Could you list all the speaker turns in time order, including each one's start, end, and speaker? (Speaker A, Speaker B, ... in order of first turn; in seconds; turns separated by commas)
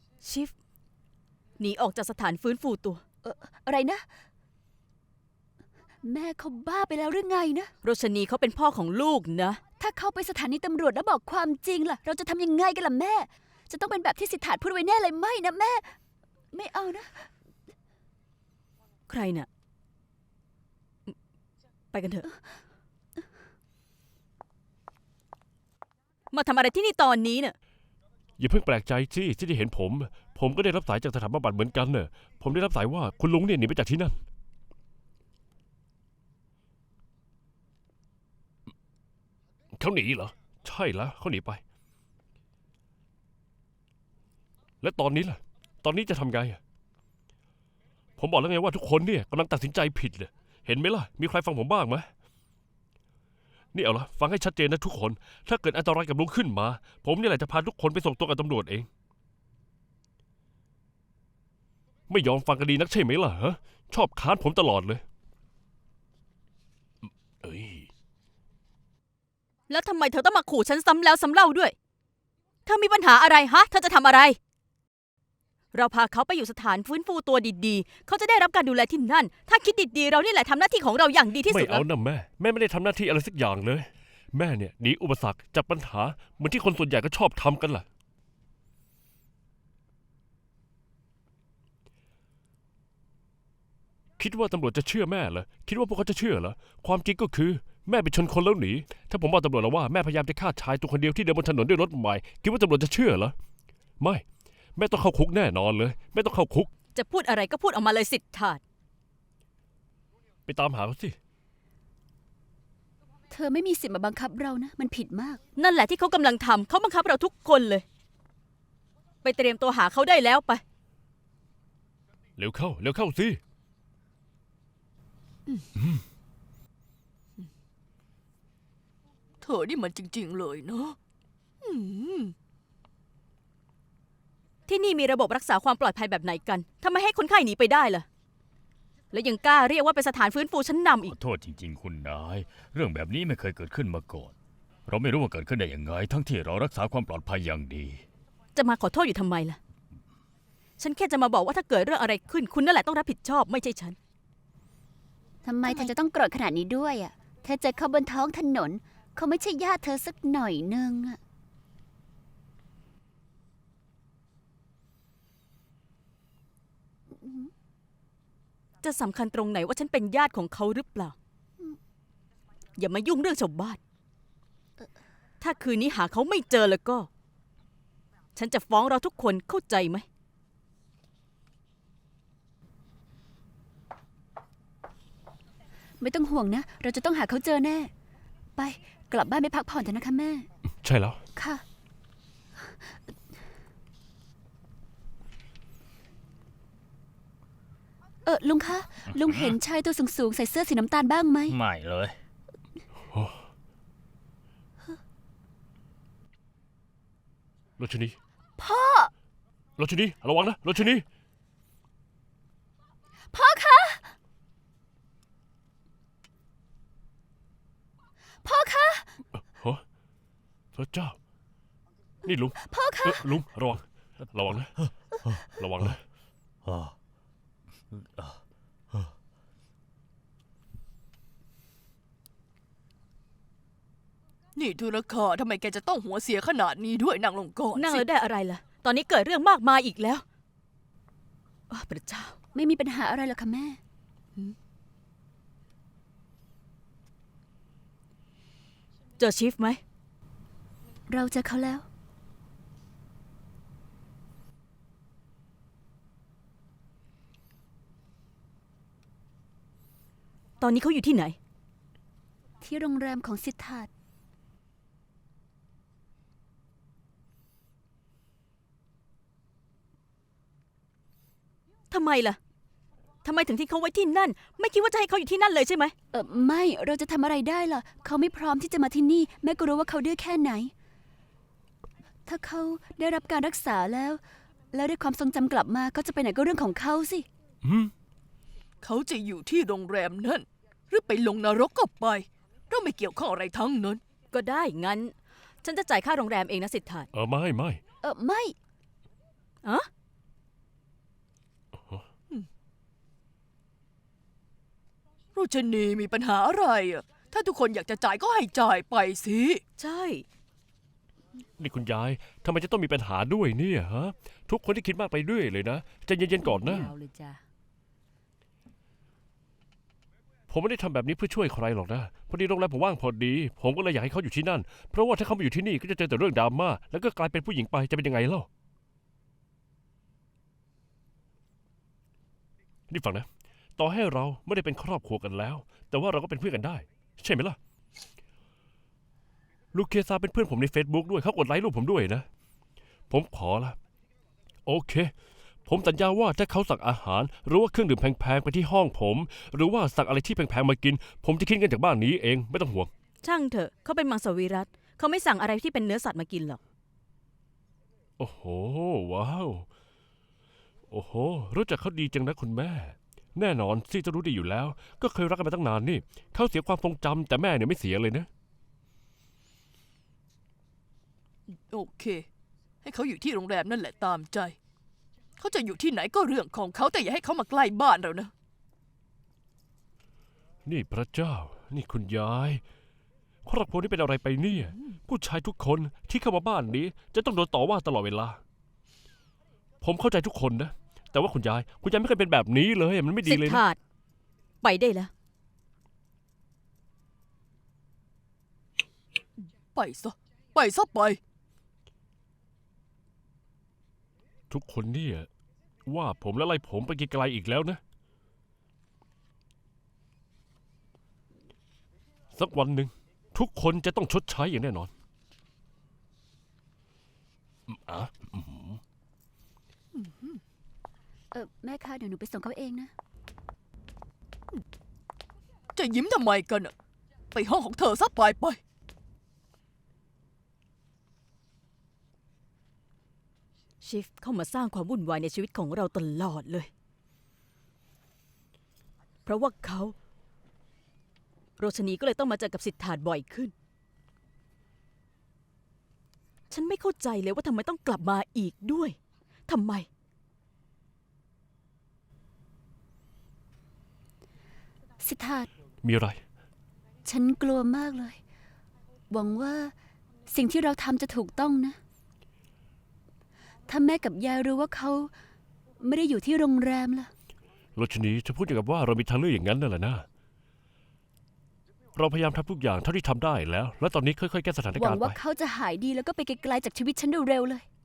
Speaker A: 0.2-0.5, Speaker A: 1.6-3.0, Speaker B: 3.2-4.1, Speaker B: 6.0-7.7, Speaker A: 7.8-9.6, Speaker B: 9.8-16.0, Speaker B: 16.5-17.3, Speaker A: 19.1-19.5, Speaker A: 21.9-22.3, Speaker A: 26.3-27.6, Speaker C: 28.4-34.2, Speaker C: 39.7-41.6, Speaker C: 44.8-46.6, Speaker C: 48.2-52.1, Speaker C: 53.7-58.9, Speaker C: 62.1-65.0, Speaker C: 67.4-67.9, Speaker A: 69.7-71.7, Speaker A: 72.7-74.4, Speaker A: 75.7-81.8, Speaker C: 81.5-87.9, Speaker C: 94.2-103.3, Speaker C: 104.0-104.2, Speaker C: 104.8-106.7, Speaker A: 106.9-108.6, Speaker C: 110.5-111.2, Speaker B: 113.3-115.4, Speaker A: 115.6-117.8, Speaker A: 119.2-120.6, Speaker C: 122.4-123.4, Speaker D: 129.4-131.0, Speaker D: 131.6-132.3, Speaker A: 134.7-138.1, Speaker A: 139.1-141.1, Speaker E: 141.1-144.3, Speaker E: 144.9-148.0, Speaker A: 148.6-149.6, Speaker A: 150.8-154.0, Speaker B: 155.4-161.2, Speaker B: 167.1-167.5, Speaker A: 168.8-171.2, Speaker A: 172.8-173.8, Speaker A: 175.4-177.1, Speaker A: 178.4-180.1, Speaker B: 186.0-187.9, Speaker B: 188.6-190.5, Speaker C: 190.8-191.2, Speaker B: 191.4-191.6, Speaker B: 198.2-201.6, Speaker E: 199.1-199.6, Speaker E: 201.5-202.2, Speaker C: 203.1-203.4, Speaker C: 207.8-208.2, Speaker B: 208.6-209.1, Speaker C: 209.8-211.1, Speaker B: 213.3-214.2, Speaker B: 218.4-219.2, Speaker C: 219.6-219.8, Speaker C: 220.7-221.2, Speaker C: 222.2-224.9, Speaker B: 222.6-223.3, Speaker C: 225.4-226.0, Speaker E: 226.6-226.9, Speaker E: 227.9-228.4, Speaker D: 234.6-238.1, Speaker A: 237.8-240.2, Speaker A: 241.7-242.4, Speaker B: 242.5-243.8, Speaker A: 249.2-249.8, Speaker B: 251.1-251.9, Speaker A: 260.6-261.4, Speaker B: 262.6-263.9, Speaker A: 271.9-272.4, Speaker A: 273.2-275.9, Speaker B: 276.1-280.7, Speaker B: 282.3-284.2, Speaker B: 284.7-287.3, Speaker C: 287.6-287.9, Speaker D: 288.8-294.0, Speaker A: 294.3-297.1, Speaker C: 297.1-297.8, Speaker B: 298.0-298.6, Speaker C: 301.7-302.1, Speaker D: 305.3-309.6, Speaker A: 309.8-310.2, Speaker C: 311.6-316.9, Speaker B: 316.4-317.4, Speaker C: 320.5-328.5, Speaker C: 332.9-337.6, Speaker C: 339.7-342.3, Speaker C: 343.1-343.8, Speaker C: 344.7-345.1, Speaker C: 345.7-352.9, Speaker A: 353.2-356.6, Speaker C: 358.2-359.7, Speaker C: 360.9-368.3, Speaker D: 371.5-372.3, Speaker D: 372.8-374.6, Speaker D: 375.4-378.3, Speaker C: 380.6-382.6, Speaker C: 383.4-388.4, Speaker D: 384.7-384.9, Speaker C: 389.8-393.6, Speaker A: 393.2-393.8, Speaker A: 394.6-395.1, Speaker D: 399.7-401.2, Speaker C: 404.5-405.3, Speaker C: 405.9-407.8, Speaker C: 412.3-414.9, Speaker C: 417.7-418.8, Speaker D: 419.9-420.4, Speaker B: 421.3-422.9, Speaker D: 425.8-426.7, Speaker D: 427.3-428.6, Speaker A: 433.8-436.7, Speaker A: 439.3-439.9, Speaker A: 441.6-443.5, Speaker A: 446.5-449.0, Speaker A: 449.5-449.9, Speaker B: 455.0-455.5, Speaker C: 455.8-456.2, Speaker B: 457.1-458.2, Speaker B: 459.1-459.7, Speaker B: 460.3-461.8, Speaker B: 463.7-465.1, Speaker B: 465.8-467.1, Speaker C: 467.8-470.1, Speaker C: 471.9-475.2, Speaker B: 474.8-477.7